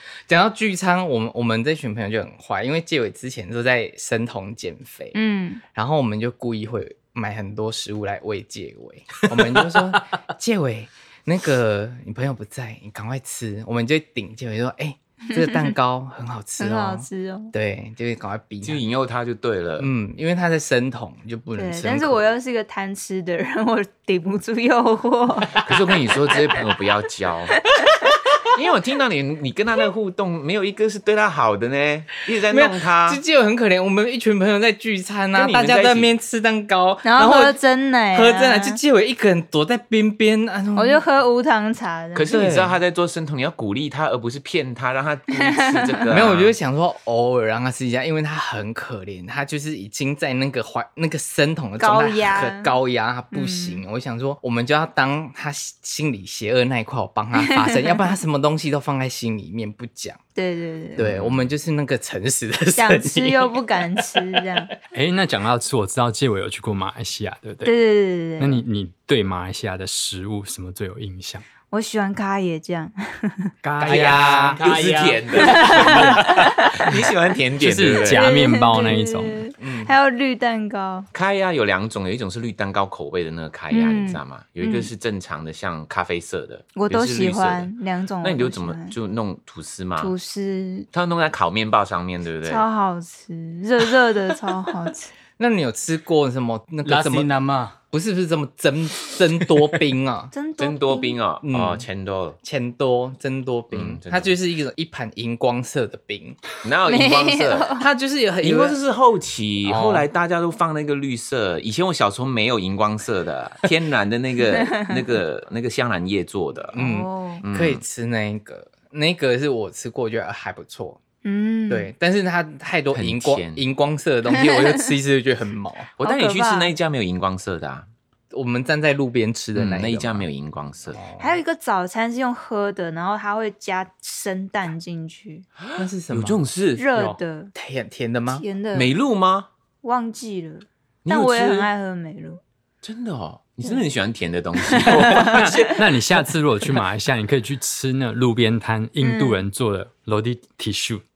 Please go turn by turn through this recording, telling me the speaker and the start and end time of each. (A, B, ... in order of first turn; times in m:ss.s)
0:00.3-0:18.8 A
0:05.1-0:05.6 B
0:15.3-0:15.7 B
0:16.6-0:17.5 B
0:18.6-0:19.9 C
0:19.8-0:22.3 A
0:21.5-0:25.6 B
0:25.6-0:27.6 C
0:28.4-0:33.2 C
0:32.5-0:37.6 A
0:35.3-0:36.1 C
0:37.0-0:38.8 B
0:38.1-0:41.0 A
0:40.7-0:42.4 B
0:42.1-0:46.5 C
0:42.3-0:42.7 A
0:45.4-0:45.9 B
0:46.1-1:00.2 A
0:51.8-0:52.8 B
0:53.3-0:53.8 B
0:57.3-0:58.1 B
1:00.3-1:01.0 B
1:01.0-1:04.4 A
1:01.0-1:01.5 C
1:02.7-1:04.7 B
1:04.9-1:07.7 D
1:07.6-1:08.6 B
1:08.4-1:11.4 D
1:11.7-1:13.5 B
1:13.6-1:14.6 D
1:13.8-1:14.6 A
1:13.8-1:16.3 E
1:13.9-1:18.2 C
1:15.4-1:16.8 B
1:17.6-1:19.4 D
1:18.0-1:21.1 B
1:19.6-1:19.9 A
1:21.1-1:30.1 C
1:23.7-1:24.9 B
1:26.7-1:28.9 B
1:30.0-1:30.9 B
1:30.9-1:32.6 C
1:32.4-1:35.1 B
1:35.4-1:37.3 A
1:36.8-1:37.8 E
1:37.9-1:40.3 A
1:40.3-1:41.2 B
1:40.6-1:42.4 C
1:41.4-1:41.8 A
1:42.4-1:46.4 A
1:43.7-1:44.3 C
1:46.6-1:47.7 C
1:46.9-1:47.9 B
1:47.8-1:48.8 A
1:48.4-1:56.8 C
1:49.6-1:50.0 A
1:54.5-1:55.0 B
1:56.7-2:01.0 A
1:56.8-1:57.4 B
1:57.4-1:57.8 C
2:01.2-2:01.9 B
2:01.7-2:05.9 A
2:02.9-2:03.6 C
2:04.3-2:04.7 B
2:06.0-2:07.9 C
2:06.0-2:06.7 B
2:08.3-2:10.2 A
2:09.5-2:11.0 C
2:10.9-2:11.4 A
2:11.2-2:15.4 B
2:15.6-2:16.9 C
2:15.8-2:16.4 A
2:16.8-2:17.5 B
2:17.5-2:18.4 A
2:18.3-2:18.9 B
2:18.7-2:19.5 C
2:19.8-2:22.4 B
2:21.0-2:21.7 C
2:22.8-2:25.9 C
2:24.7-2:25.6 B
2:25.1-2:31.0 D
2:29.0-2:29.4 B